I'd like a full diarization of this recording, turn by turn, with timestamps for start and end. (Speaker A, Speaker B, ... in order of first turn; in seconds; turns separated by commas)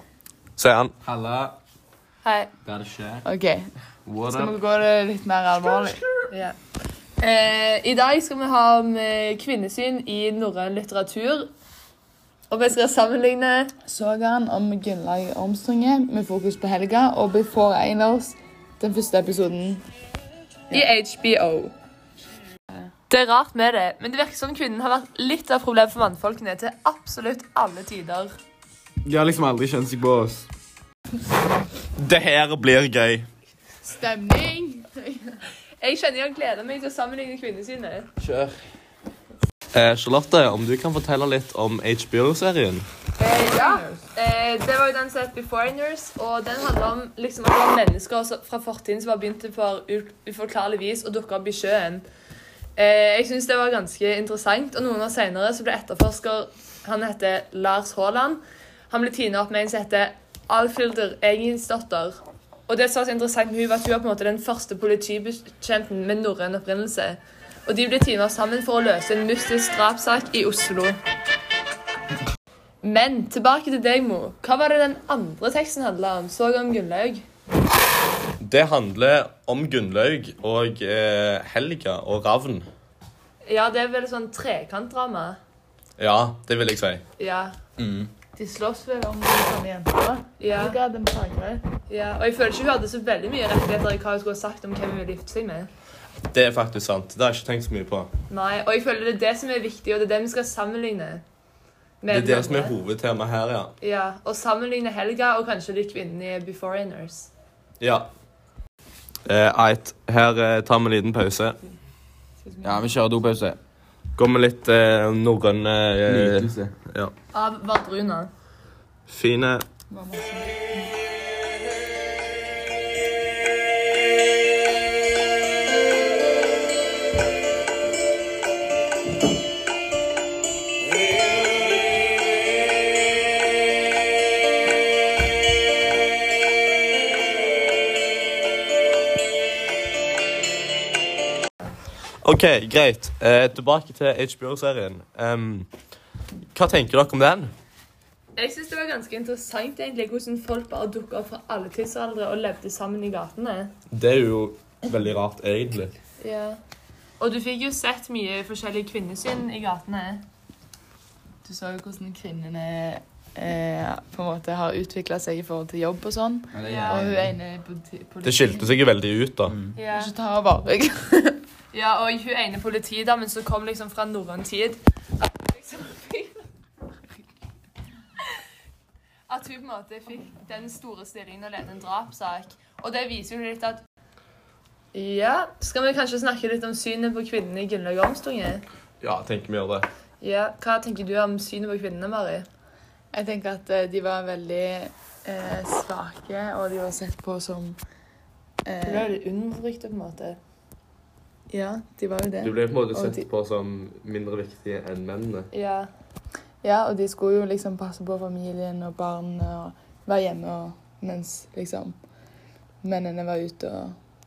Speaker A: 0.6-0.9, Speaker B: 1.0-1.6, Speaker C: 2.2-2.5, Speaker B: 2.7-3.2, Speaker D: 3.2-3.7, Speaker A: 4.1-4.5, Speaker D: 4.3-6.0, Speaker C: 6.3-6.6, Speaker C: 7.2-11.5, Speaker C: 12.5-13.7, Speaker D: 13.9-19.8, Speaker C: 20.7-21.7, Speaker C: 23.1-28.3, Speaker B: 29.1-30.4, Speaker A: 32.0-33.3, Speaker D: 33.8-35.3, Speaker C: 35.8-38.1, Speaker B: 38.2-38.6, Speaker A: 39.7-42.9, Speaker D: 43.2-44.1, Speaker C: 43.3-52.0, Speaker C: 52.8-71.0, Speaker C: 72.8-77.2, Speaker A: 78.4-82.7, Speaker C: 83.4-85.4, Speaker A: 86.0-87.0, Speaker C: 87.2-87.6, Speaker D: 88.3-91.6, Speaker C: 90.4-90.8, Speaker C: 91.9-95.7, Speaker A: 96.3-98.1, Speaker C: 98.3-101.2, Speaker C: 102.0-102.8, Speaker A: 102.1-103.7, Speaker C: 103.8-107.3, Speaker A: 107.8-108.1, Speaker A: 109.3-111.6, Speaker D: 112.4-113.0, Speaker B: 112.6-113.6, Speaker A: 114.2-117.1, Speaker B: 116.0-116.7, Speaker C: 117.3-118.3, Speaker A: 119.1-119.7, Speaker D: 119.9-120.9, Speaker A: 142.2-145.7, Speaker A: 146.6-147.5, Speaker C: 148.4-153.7, Speaker A: 153.9-156.0, Speaker C: 156.2-156.6, Speaker C: 157.2-160.2, Speaker D: 161.4-168.8, Speaker B: 166.5-167.2, Speaker C: 166.6-167.1, Speaker A: 168.2-169.6, Speaker C: 169.7-170.2, Speaker D: 169.9-171.4, Speaker C: 171.7-176.3, Speaker C: 179.3-183.8, Speaker C: 184.9-188.6, Speaker A: 189.0-189.9, Speaker C: 190.2-192.5, Speaker D: 193.1-197.8, Speaker D: 198.7-199.1, Speaker C: 198.8-200.4, Speaker D: 201.5-203.2, Speaker A: 202.4-205.5, Speaker C: 205.5-205.9, Speaker D: 206.6-212.0, Speaker D: 212.8-214.0